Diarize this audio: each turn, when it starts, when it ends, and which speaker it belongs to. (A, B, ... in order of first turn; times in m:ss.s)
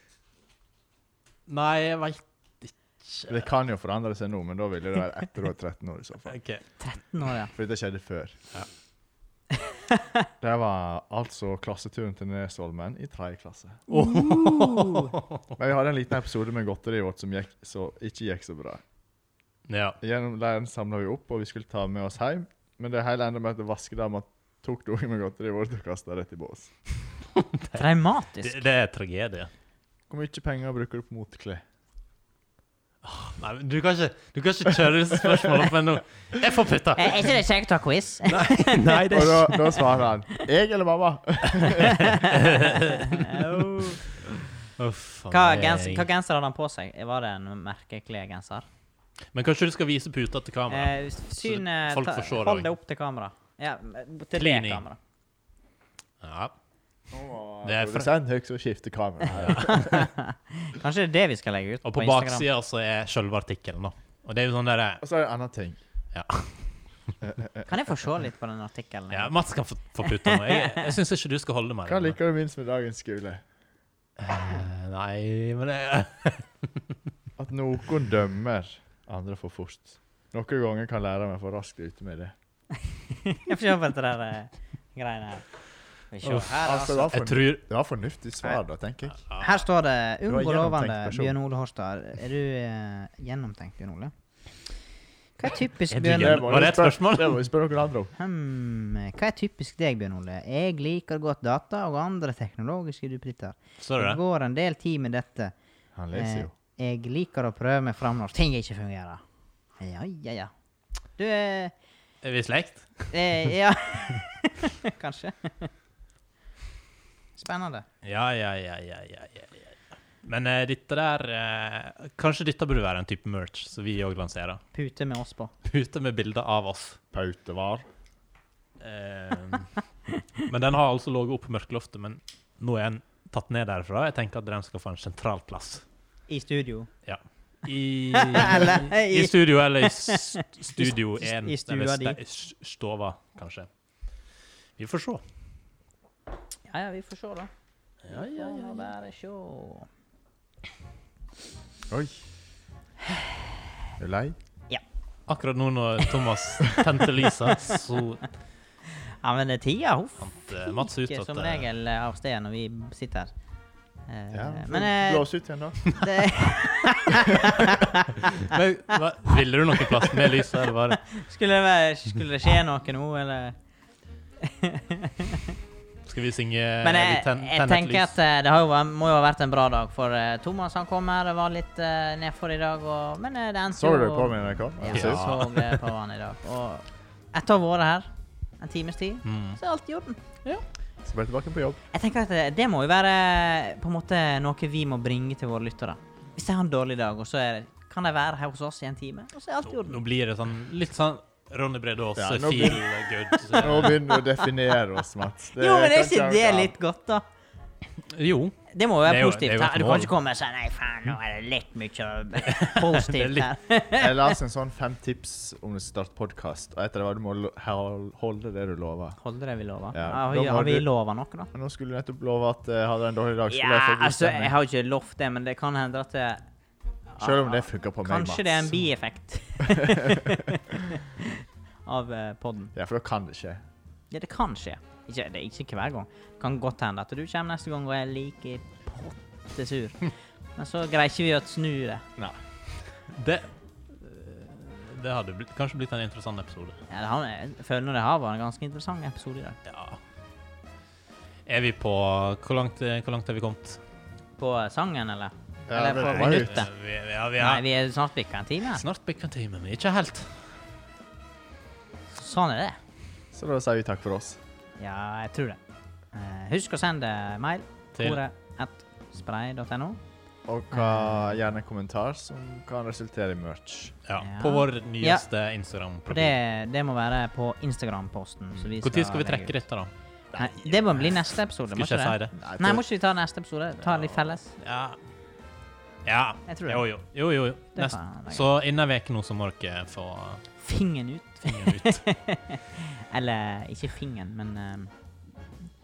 0:01.5-0:03.4 A
0:03.3-0:06.4 B
0:06.3-0:06.6 A
0:06.8-0:07.5 C
0:07.5-0:08.4 B
0:10.4-0:13.8 B
0:13.9-0:15.1 C
0:13.9-0:15.5 A
0:15.6-0:18.8 B
0:19.7-0:20.0 A
0:20.0-0:26.7 B
0:27.4-0:27.8 A
0:27.8-0:28.6 C
0:28.4-0:29.5 A
0:30.1-0:31.6 B
0:33.0-0:37.2 A
0:37.0-0:39.6 C
0:38.3-0:39.8 A
0:39.1-0:42.2 B
0:41.5-0:43.4 A
0:41.8-0:44.0 C
0:44.8-0:46.1 A
0:45.3-0:48.7 C
0:49.3-0:52.7 A
0:50.7-0:55.0 C
0:54.4-0:54.8 A
0:56.2-0:56.6 A
0:57.1-0:59.9 B
0:57.6-0:58.1 A
0:59.3-1:00.1 A
0:59.5-1:02.5 C
1:01.8-1:05.0 A
1:05.0-1:05.8 B
1:06.1-1:06.6 A
1:07.2-1:07.7 B
1:07.7-1:09.3 C
1:09.1-1:12.2 A
1:10.0-1:10.9 C
1:11.9-1:13.4 B
1:14.2-1:16.5 A
1:17.4-1:22.3 B
1:23.2-1:25.4 C
1:26.1-1:27.1 C
1:26.2-1:27.6 A
1:26.5-1:29.2 B
1:29.2-1:29.6 A
1:29.4-1:34.1 C
1:30.3-1:31.4 B
1:35.4-1:36.6 C
1:35.9-1:37.4 A
1:36.1-1:38.1 B
1:38.2-1:45.5 C
1:43.8-1:44.2 A
1:46.0-1:46.5 B
1:46.1-1:49.2 C
1:49.8-1:50.5 C
1:51.2-1:51.7 C
1:52.2-1:53.2 A
1:53.1-1:55.7 C
1:57.4-1:57.9 C
1:58.0-2:04.6 A
2:04.7-2:05.5 C
2:05.6-2:07.0 A
2:07.1-2:07.8 B
2:08.8-2:09.7 A
2:10.4-2:15.8 A
2:16.3-2:16.9 C
2:17.1-2:23.7 A
2:18.1-2:22.2 C
2:24.8-2:25.2 A
2:26.7-2:27.5 C
2:28.0-2:28.9 A
2:28.1-2:29.9 C
2:31.9-2:32.2 B
2:34.0-2:34.4 B
2:35.3-2:38.3 A
2:37.4-2:37.8 C
2:39.2-2:43.3 C
2:40.2-2:41.7 A
2:44.1-2:45.3 C
2:44.3-2:46.0 B
2:45.9-2:48.5 C
2:48.4-2:51.1 A
2:50.0-2:50.5 C
2:51.0-2:53.6 C
2:54.4-2:55.5 C
2:56.1-2:58.1 A
2:56.8-3:10.2 C
3:03.8-3:05.4 B
3:04.9-3:05.8 A
3:09.2-3:09.6 A
3:11.0-3:11.8 B
3:11.9-3:20.0 C
3:19.7-3:24.0 A
3:22.2-3:22.9 B
3:23.6-3:26.8 B
3:23.7-3:24.4 C
3:25.6-3:27.2 C
3:28.1-3:30.1 A
3:28.7-3:34.3 C
3:32.5-3:33.5 A
3:34.0-3:39.2 B
3:39.2-3:41.5 C
3:39.9-3:40.9 B
3:41.5-3:44.5 B
3:43.5-3:46.4 C
3:47.1-3:51.3 C
3:47.2-3:48.8 B
3:49.8-3:50.3 B
3:51.8-3:52.7 C
3:52.7-3:53.6 B
3:54.1-4:02.1 C
4:03.1-4:06.8 A
4:06.9-4:09.6 C
4:09.7-4:10.0 A
4:11.5-4:13.8 A
4:14.4-4:16.7 C
4:15.7-4:16.6 B
4:16.0-4:17.7 A
4:17.4-4:18.8 C
4:18.7-4:20.5 A
4:22.1-4:22.8 C
4:23.3-4:24.4 B
4:24.8-4:25.6 C
4:26.1-4:30.0 C
4:30.5-4:34.0 B
4:30.7-4:31.3 C
4:34.1-4:36.4 A
4:34.2-4:35.2 C
4:36.1-4:39.6 C
4:38.8-4:39.9 A
4:40.3-4:40.7 B
4:40.4-4:44.5 C
4:41.7-4:42.4 A
4:42.4-4:42.8 B
4:43.8-4:45.0 A
4:46.0-4:50.4 A
4:46.5-4:46.8 C
4:47.8-4:48.4 C
4:50.6-4:54.9 C
4:51.4-4:52.0 A